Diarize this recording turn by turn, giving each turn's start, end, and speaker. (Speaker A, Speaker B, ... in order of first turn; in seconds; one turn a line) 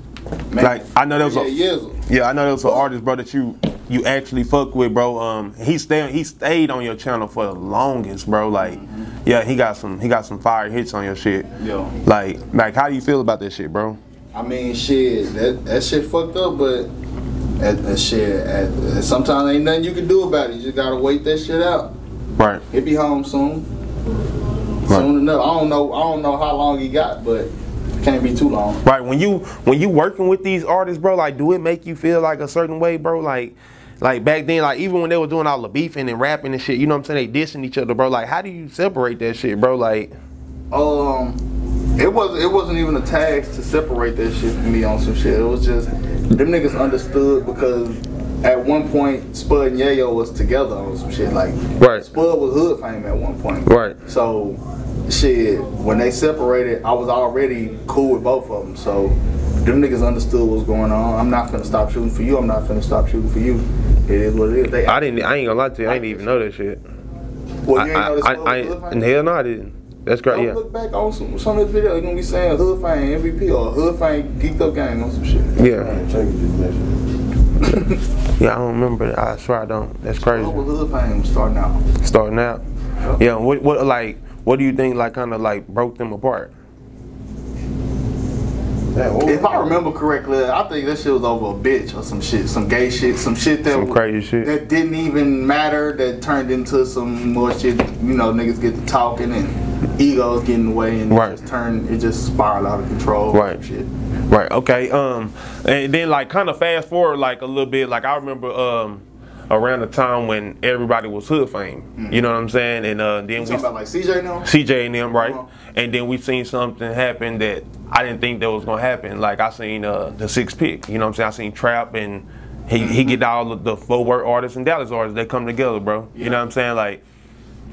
Speaker A: 0.5-2.0
Speaker B: 0.6-11.5
Speaker A: 2.6-2.9
Speaker A: 8.6-9.1
Speaker A: 11.6-11.9
Speaker B: 12.0-14.0
Speaker A: 14.3-16.9
Speaker A: 17.6-21.9
Speaker A: 22.7-23.7
Speaker A: 24.9-28.8
Speaker B: 28.8-40.1
Speaker A: 40.7-41.4
Speaker A: 42.0-65.1
Speaker B: 51.8-52.0
Speaker B: 53.6-54.0
Speaker B: 64.8-66.8
Speaker A: 65.8-66.3
Speaker A: 67.7-69.0
Speaker B: 67.7-70.6
Speaker A: 70.3-75.5
Speaker B: 75.5-76.0
Speaker C: 75.7-77.0
Speaker A: 77.6-78.0
Speaker B: 78.4-80.6
Speaker A: 80.2-81.8
Speaker B: 82.0-82.6
Speaker B: 83.2-86.5
Speaker C: 88.9-89.8
Speaker A: 89.2-103.9
Speaker B: 93.7-94.5
Speaker B: 101.1-101.3
Speaker B: 103.3-103.6
Speaker B: 104.3-113.7
Speaker A: 112.0-112.2
Speaker A: 113.3-114.5
Speaker B: 114.4-127.0
Speaker A: 115.1-115.4
Speaker A: 122.8-123.2
Speaker A: 126.1-126.4